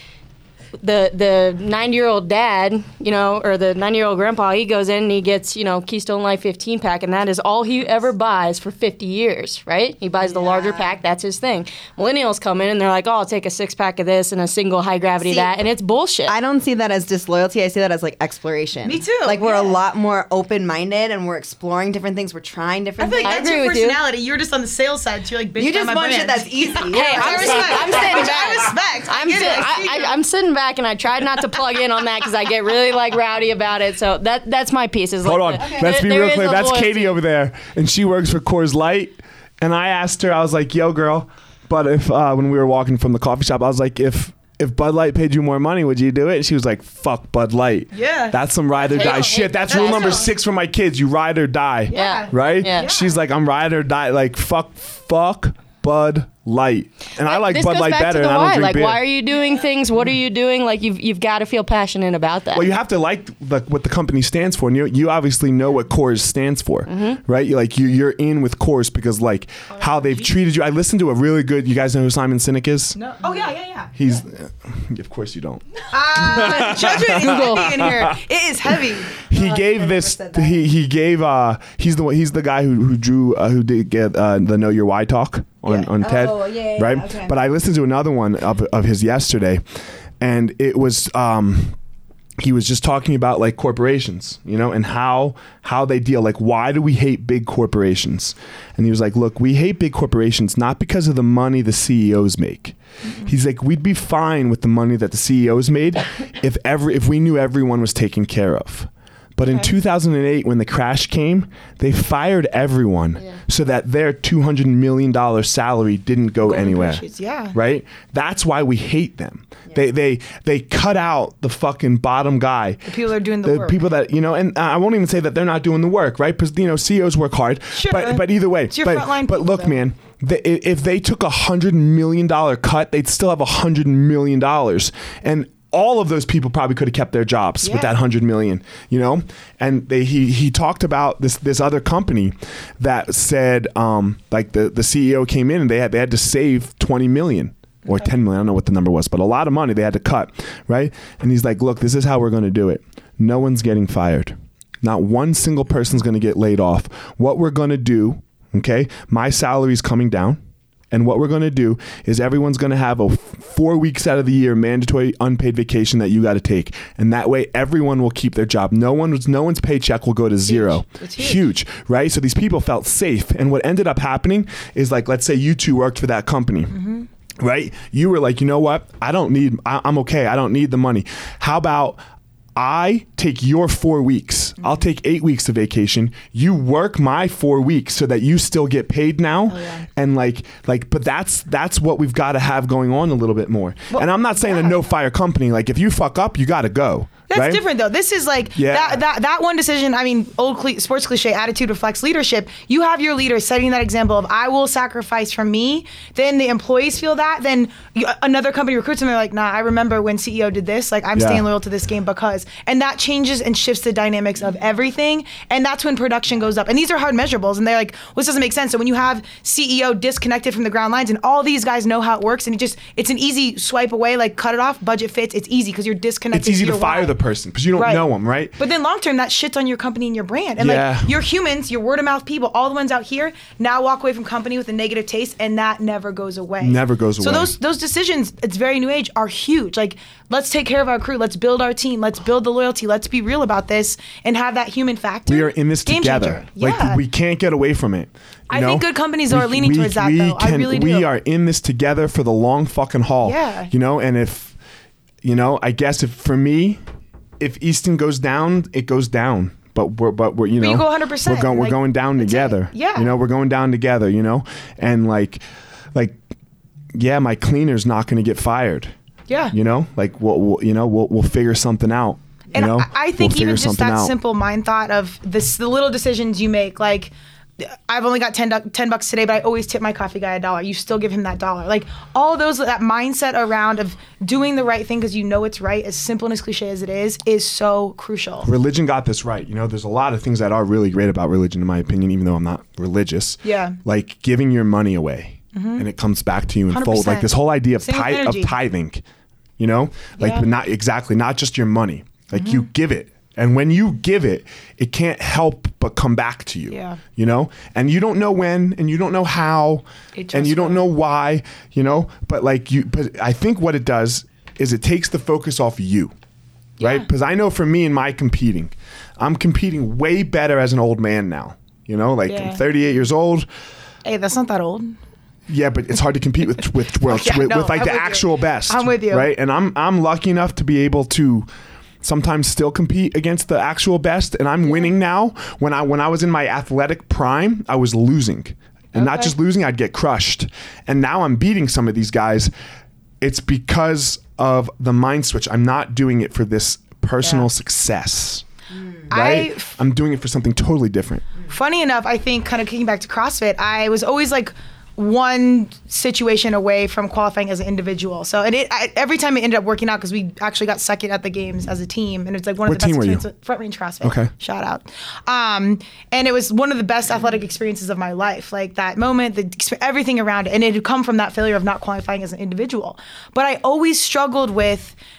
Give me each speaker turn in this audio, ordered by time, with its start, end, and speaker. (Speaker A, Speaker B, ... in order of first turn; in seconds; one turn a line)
Speaker A: 0.8-16.3
Speaker B: 10.2-10.9
Speaker B: 16.3-23.5
Speaker C: 18.8-19.7
Speaker C: 23.0-30.2
Speaker A: 23.2-24.0
Speaker B: 25.6-28.4
Speaker A: 26.9-37.2
Speaker D: 35.2-59.0
Speaker B: 35.6-36.0
Speaker C: 47.9-48.4
Speaker A: 48.8-50.3
Speaker C: 49.0-50.3
Speaker C: 51.9-53.1
Speaker A: 51.9-52.9
Speaker A: 57.2-62.7
Speaker D: 62.5-73.0
Speaker A: 66.9-67.2
Speaker C: 69.7-70.3
Speaker C: 73.0-74.0
Speaker D: 74.0-78.2
Speaker C: 75.9-79.1
Speaker A: 77.1-77.7
Speaker B: 79.2-80.7
Speaker D: 79.2-89.6
Speaker B: 85.7-87.3
Speaker D: 90.2-91.8
Speaker D: 92.4-122.9
Speaker C: 103.0-103.3
Speaker C: 109.4-109.7
Speaker C: 116.5-117.5
Speaker C: 122.8-123.8
Speaker D: 123.4-160.4
Speaker C: 127.7-129.8
Speaker C: 137.6-137.9
Speaker D: 160.9-176.7
Speaker C: 170.5-171.4
Speaker C: 176.7-177.1
Speaker D: 177.4-182.0
Speaker D: 182.6-197.6
Speaker C: 189.5-189.8
Speaker C: 193.9-194.8
Speaker C: 197.3-227.1
Speaker D: 198.5-199.0
Speaker D: 211.1-211.4
Speaker D: 226.3-228.6
Speaker C: 227.8-228.1
Speaker C: 228.6-247.0
Speaker D: 230.6-231.1
Speaker D: 236.6-237.5
Speaker D: 245.3-254.5
Speaker C: 248.5-251.1
Speaker C: 253.2-253.7
Speaker D: 255.2-256.8
Speaker D: 257.4-265.4
Speaker C: 260.6-263.1
Speaker D: 266.9-268.9
Speaker C: 269.3-269.5
Speaker D: 269.5-274.1
Speaker C: 272.5-288.5
Speaker D: 288.4-299.0
Speaker C: 293.4-293.8
Speaker C: 295.5-295.9
Speaker C: 296.7-298.5
Speaker D: 299.6-316.1
Speaker C: 300.2-300.4
Speaker C: 302.4-302.6
Speaker C: 306.7-307.0
Speaker C: 310.1-310.9
Speaker C: 316.8-317.1
Speaker D: 316.8-323.5
Speaker C: 322.3-322.6
Speaker C: 324.0-324.9
Speaker D: 325.5-331.5
Speaker C: 327.1-329.3
Speaker D: 332.0-342.5
Speaker C: 338.9-339.3
Speaker D: 343.2-348.4
Speaker B: 348.7-349.0
Speaker C: 349.1-349.7
Speaker D: 349.1-351.2
Speaker C: 351.5-374.9
Speaker D: 362.6-363.2
Speaker D: 364.0-364.3